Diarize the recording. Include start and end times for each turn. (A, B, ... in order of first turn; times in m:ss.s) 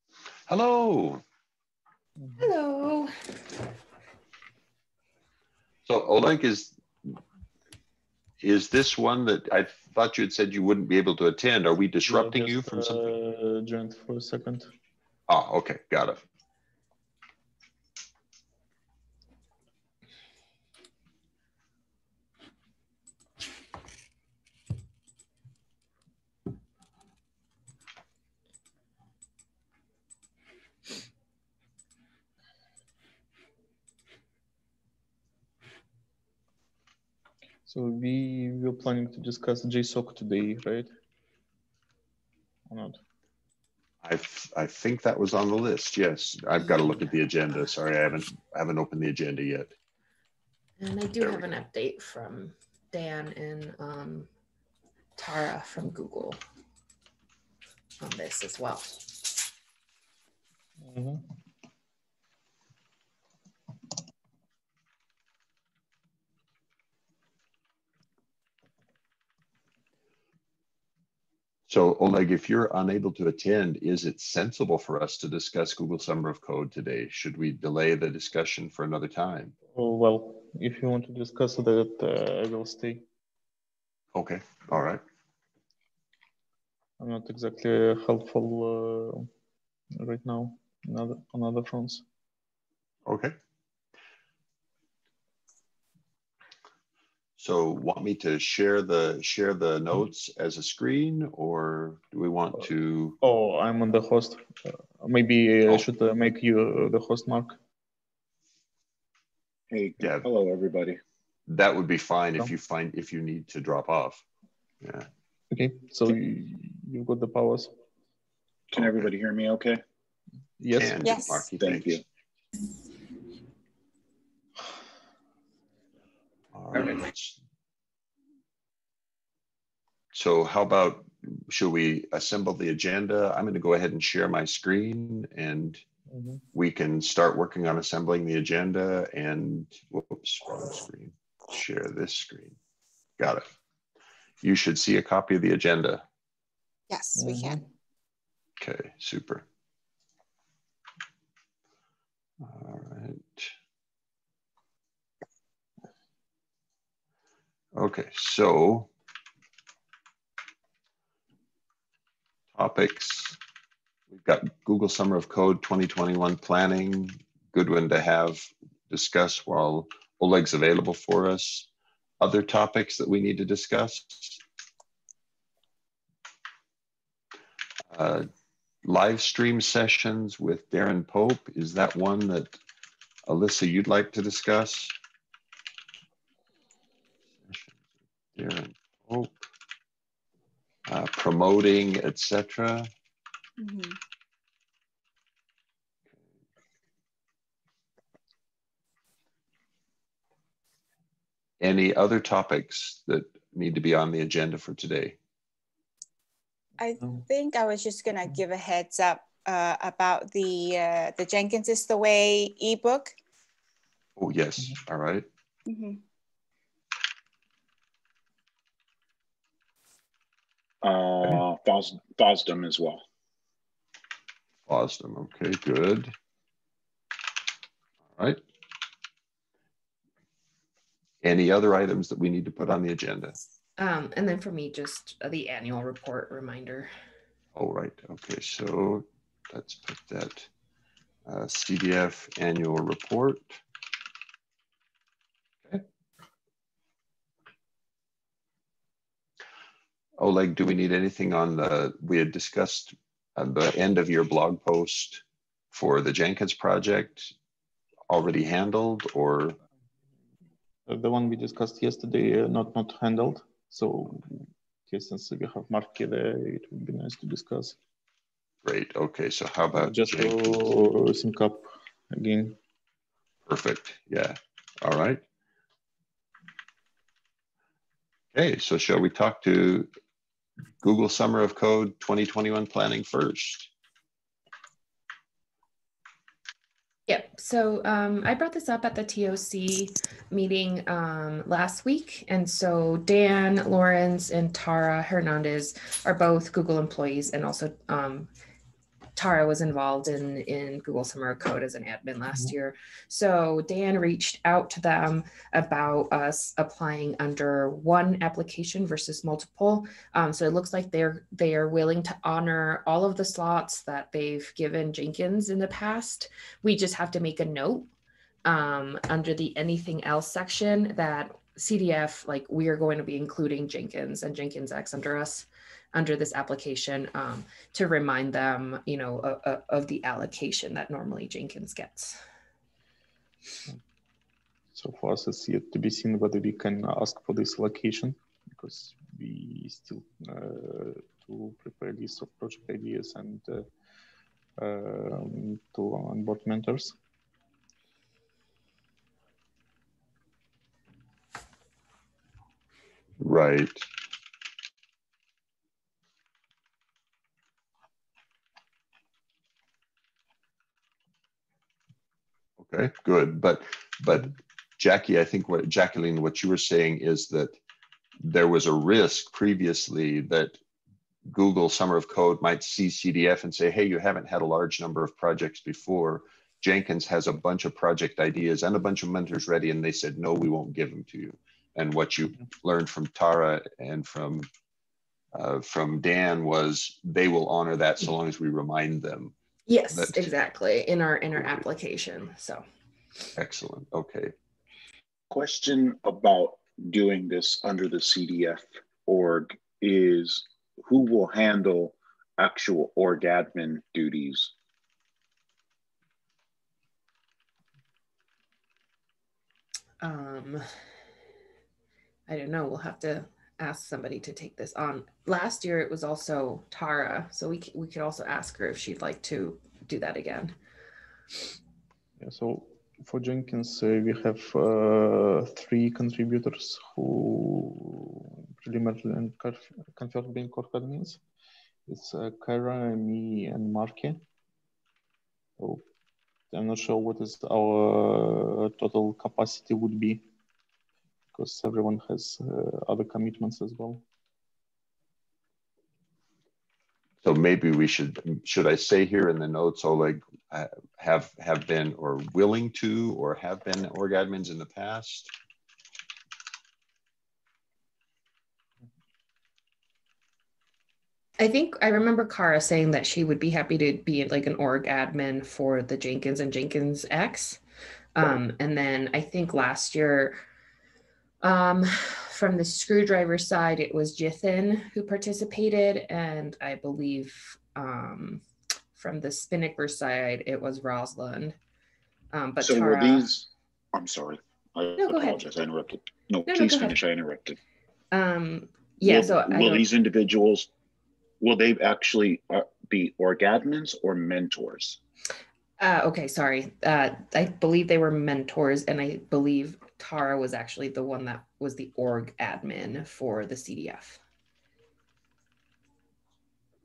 0:00.5-0:01.2 A
0:02.2-0:02.4 B
0:02.4-0:03.1 C
0:05.8-0:07.2 A
0:08.4-0:13.1 A
0:12.0-0:14.7 B
0:15.3-0:16.2 A
0:37.6-0:40.9 B
0:42.7-0:43.0 B
0:44.0-0:49.7 A
0:50.8-0:54.3 C
0:55.2-0:56.4 C
0:58.0-0:59.1 C
1:00.8-1:01.2 B
1:11.7-1:19.5 A
1:19.7-1:23.0 B
1:24.1-1:25.0 A
1:27.0-1:29.3 B
1:30.0-1:32.0 B
1:33.0-1:33.3 A
1:37.4-1:43.2 A
1:43.2-1:47.6 B
1:49.7-1:51.0 D
1:50.0-1:50.2 A
1:51.5-1:54.2 A
1:54.8-1:55.1 A
1:55.5-1:57.7 B
1:58.7-1:59.8 D
1:58.7-1:59.1 A
2:00.6-2:01.1 B
2:00.7-2:02.0 A
2:01.0-2:01.5 E
2:01.6-2:02.0 D
2:06.5-2:07.4 A
2:10.1-2:15.8 A
2:16.1-2:16.4 B
2:16.5-2:22.6 A
2:23.2-2:23.5 A
2:24.4-2:26.0 A
2:26.9-2:27.6 E
2:27.2-2:27.6 B
2:28.6-2:29.4 A
2:32.4-2:33.5 A
2:37.7-2:38.9 A
2:42.5-2:43.4 A
2:44.1-2:51.7 A
2:52.2-2:54.4 A
2:57.9-2:58.2 A
2:58.8-3:02.6 A
3:03.3-3:04.9 A
3:07.4-3:07.7 A
3:08.4-3:09.4 A
3:10.9-3:12.9 A
3:13.6-3:14.0 E
3:21.6-3:25.2 A
3:26.8-3:33.1 E
3:34.2-3:35.3 A
3:35.7-3:36.0 E
3:40.8-3:43.0 D
3:44.6-3:46.2 A
3:48.1-3:48.4 A
3:51.2-3:53.4 A
3:53.8-3:56.9 C
3:57.5-4:00.5 A
4:01.2-4:03.6 A
4:10.2-4:17.3 A
4:18.1-4:19.6 A
4:20.9-4:27.8 B
4:28.6-4:30.7 A
4:29.7-4:32.6 B
4:33.5-4:35.2 A
4:38.3-4:39.9 A
4:40.8-4:43.7 A
4:47.1-4:58.3 C
4:59.2-5:17.9 C
5:18.4-5:32.2 C
5:34.7-5:43.7 B
5:44.6-5:47.0 B
5:53.2-5:53.8 A
6:02.6-6:07.6 A
6:08.2-6:10.6 A
6:11.2-6:24.5 A
6:25.3-6:29.3 A
6:29.7-6:32.6 C
6:29.9-6:30.3 A
6:33.4-6:34.3 A
6:35.3-6:44.5 D
6:50.0-6:50.7 C
6:52.3-7:00.5 C
7:02.2-7:11.2 B
7:11.9-7:14.2 B
7:15.6-7:15.8 B
7:16.5-7:20.2 B
7:21.3-7:24.0 B
7:27.2-7:35.3 A
7:41.4-7:47.6 C
7:48.1-7:50.4 C
7:51.4-7:58.4 C
7:58.9-8:01.6 C
8:02.3-8:03.3 C
8:02.6-8:07.6 D
8:05.0-8:05.4 C
8:06.5-8:07.0 C
8:08.1-8:09.8 C
8:09.0-8:10.7 D
8:11.4-8:15.0 D
8:15.8-8:24.2 C